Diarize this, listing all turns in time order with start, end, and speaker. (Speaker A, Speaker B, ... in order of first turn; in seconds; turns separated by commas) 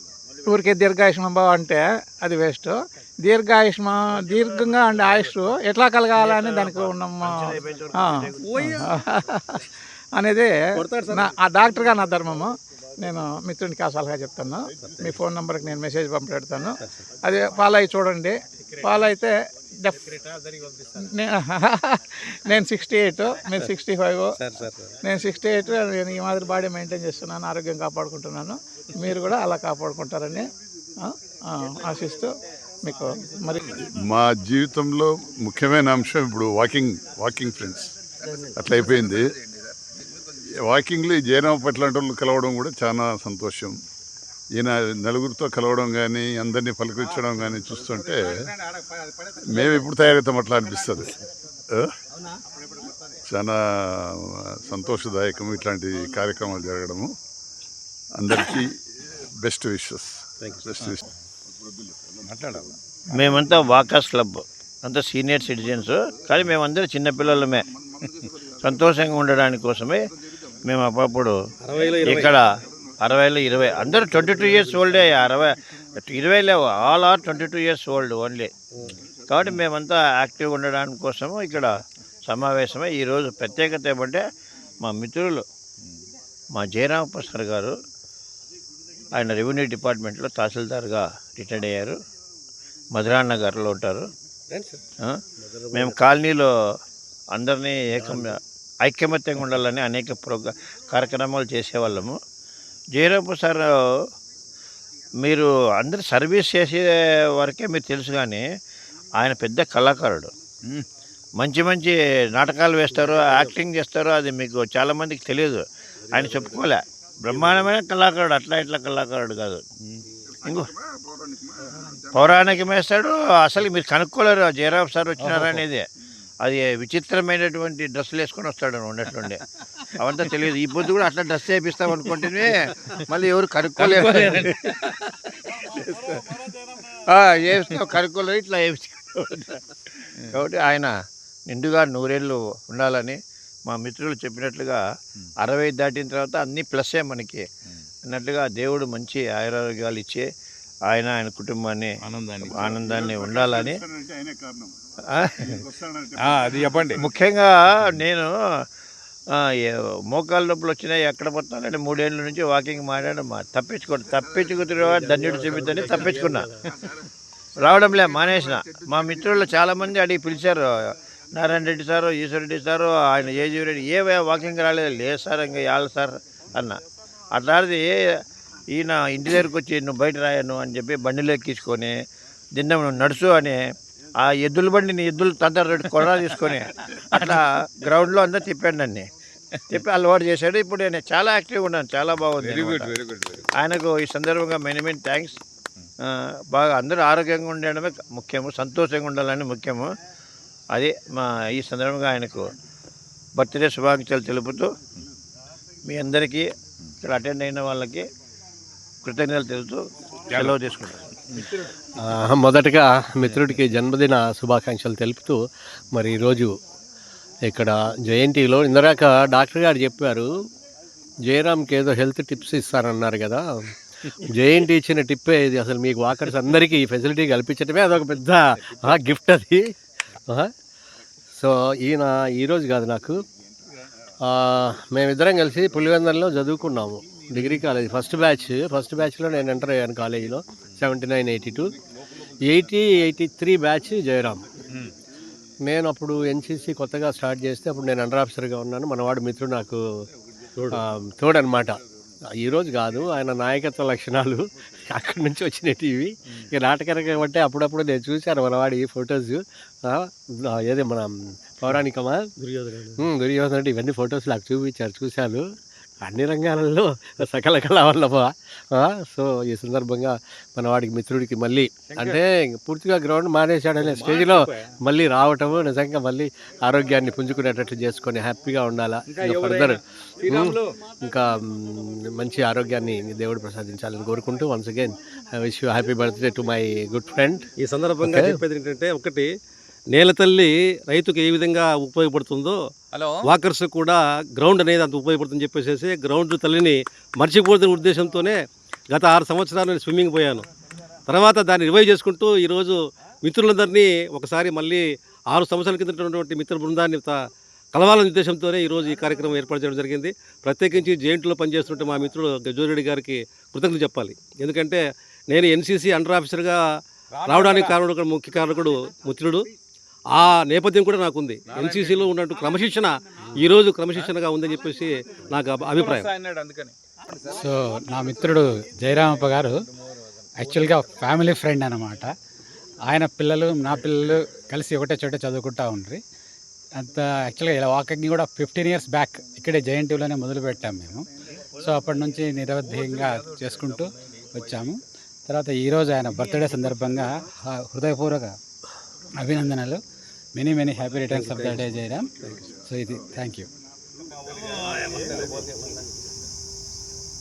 Speaker A: 0.5-10.5, Speaker B: 6.2-8.7, Speaker C: 8.4-8.9, Speaker C: 10.8-11.3, Speaker A: 11.1-20.2, Speaker A: 21.0-24.4, Speaker C: 24.4-24.9, Speaker A: 25.0-30.5, Speaker A: 31.0-32.3, Speaker A: 32.9-33.7, Speaker D: 34.0-37.9, Speaker D: 38.5-39.4, Speaker D: 40.6-43.8, Speaker D: 44.5-48.5, Speaker D: 49.4-51.1, Speaker D: 53.3-57.1, Speaker D: 58.2-58.8, Speaker D: 59.4-61.0, Speaker E: 62.3-62.6, Speaker B: 63.1-67.6, Speaker B: 68.6-70.0, Speaker B: 70.7-71.4, Speaker C: 71.7-72.3, Speaker B: 72.0-72.5, Speaker B: 73.0-78.5, Speaker B: 79.3-81.8, Speaker B: 82.3-84.2, Speaker B: 84.8-85.5, Speaker B: 86.5-87.8, Speaker B: 89.2-92.0, Speaker B: 92.9-94.1, Speaker B: 95.7-96.5, Speaker B: 97.3-102.2, Speaker B: 102.9-104.0, Speaker B: 105.2-108.4, Speaker B: 109.2-110.3, Speaker B: 111.4-119.6, Speaker B: 120.4-120.7, Speaker B: 122.1-125.9, Speaker B: 126.4-129.4, Speaker B: 130.0-134.8, Speaker E: 133.8-134.5, Speaker B: 135.7-136.1, Speaker B: 137.1-139.5, Speaker B: 140.3-140.9, Speaker B: 141.5-144.8, Speaker B: 145.4-147.5, Speaker B: 148.1-150.3, Speaker B: 150.9-153.8, Speaker E: 152.0-152.8, Speaker B: 155.1-155.6, Speaker E: 156.2-157.0, Speaker B: 156.9-158.7, Speaker B: 159.3-166.5, Speaker B: 167.6-170.8, Speaker B: 171.3-176.8, Speaker B: 177.3-178.2, Speaker B: 178.7-182.0, Speaker B: 182.6-183.6, Speaker B: 184.2-189.1, Speaker B: 189.7-192.9, Speaker E: 192.4-193.5, Speaker B: 193.6-195.4, Speaker B: 196.0-199.9, Speaker B: 200.7-202.5, Speaker B: 203.4-204.7, Speaker B: 205.9-206.5, Speaker B: 207.0-208.1, Speaker B: 209.0-211.1, Speaker F: 212.0-215.4, Speaker F: 215.9-216.6, Speaker F: 217.5-220.3, Speaker F: 221.3-229.7, Speaker F: 231.3-233.2, Speaker F: 234.2-241.8, Speaker F: 242.5-244.4, Speaker F: 245.7-249.8, Speaker F: 251.2-251.8, Speaker F: 252.4-262.2, Speaker C: 262.4-263.1, Speaker F: 263.0-265.5, Speaker F: 266.1-287.5, Speaker E: 271.9-272.2, Speaker E: 273.8-274.7, Speaker E: 279.1-280.7, Speaker C: 287.6-289.3, Speaker F: 288.0-288.4, Speaker C: 289.9-292.6, Speaker E: 292.9-293.2, Speaker C: 293.2-300.5, Speaker C: 301.1-307.2, Speaker C: 307.7-316.6, Speaker E: 317.1-317.8, Speaker C: 317.3-319.5, Speaker C: 320.1-326.1, Speaker E: 321.5-322.1, Speaker E: 325.8-326.8, Speaker G: 327.3-329.6, Speaker G: 330.4-332.1, Speaker G: 332.9-336.0, Speaker G: 336.8-341.1, Speaker G: 341.6-348.3, Speaker G: 349.2-349.8, Speaker G: 350.4-353.5, Speaker C: 351.1-351.6, Speaker C: 354.3-355.5